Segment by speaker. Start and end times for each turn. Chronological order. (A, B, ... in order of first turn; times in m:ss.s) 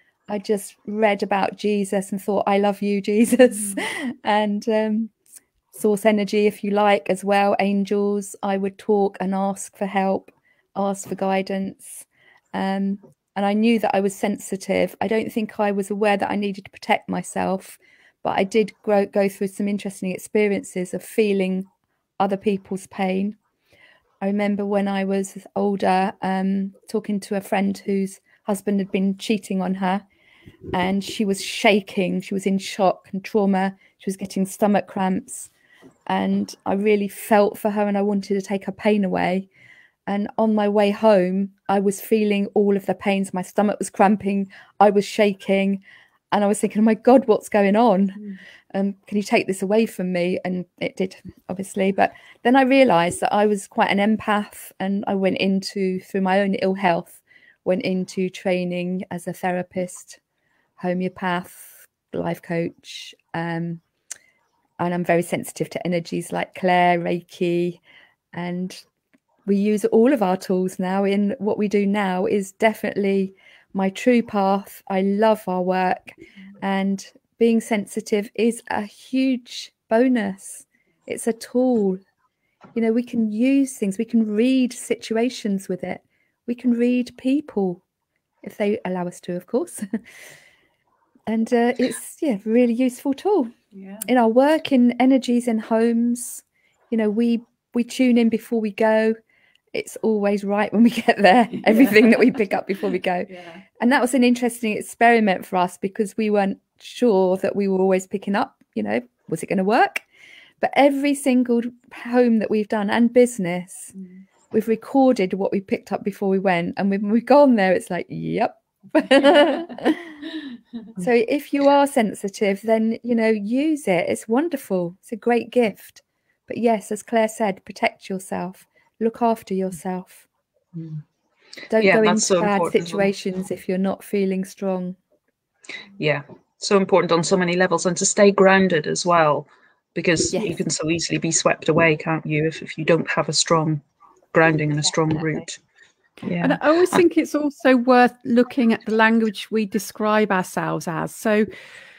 0:00.3-0:05.1 A
0:05.7-0:23.4 A
0:24.2-0:30.0 A
0:30.7-0:35.5 A
0:36.1-0:39.5 A
0:40.1-0:48.2 A
0:48.7-1:00.2 A
1:00.8-1:03.8 A
1:04.8-1:07.8 A
1:08.3-1:08.8 A
1:09.4-1:22.0 A
1:22.7-1:27.8 A
1:28.4-1:30.0 A
1:31.3-1:39.2 A
1:33.7-1:34.1 B
1:39.7-1:50.0 A
1:41.7-1:42.3 B
1:43.3-1:43.6 B
1:50.6-1:53.9 A
1:53.9-1:54.2 B
1:54.5-2:00.2 A
2:01.0-2:10.2 A
2:11.7-2:15.0 A
2:11.8-2:13.1 C
2:16.0-2:23.8 C
2:24.3-2:25.6 C
2:25.1-2:25.4 A
2:26.2-2:27.0 C
2:26.4-2:31.5 B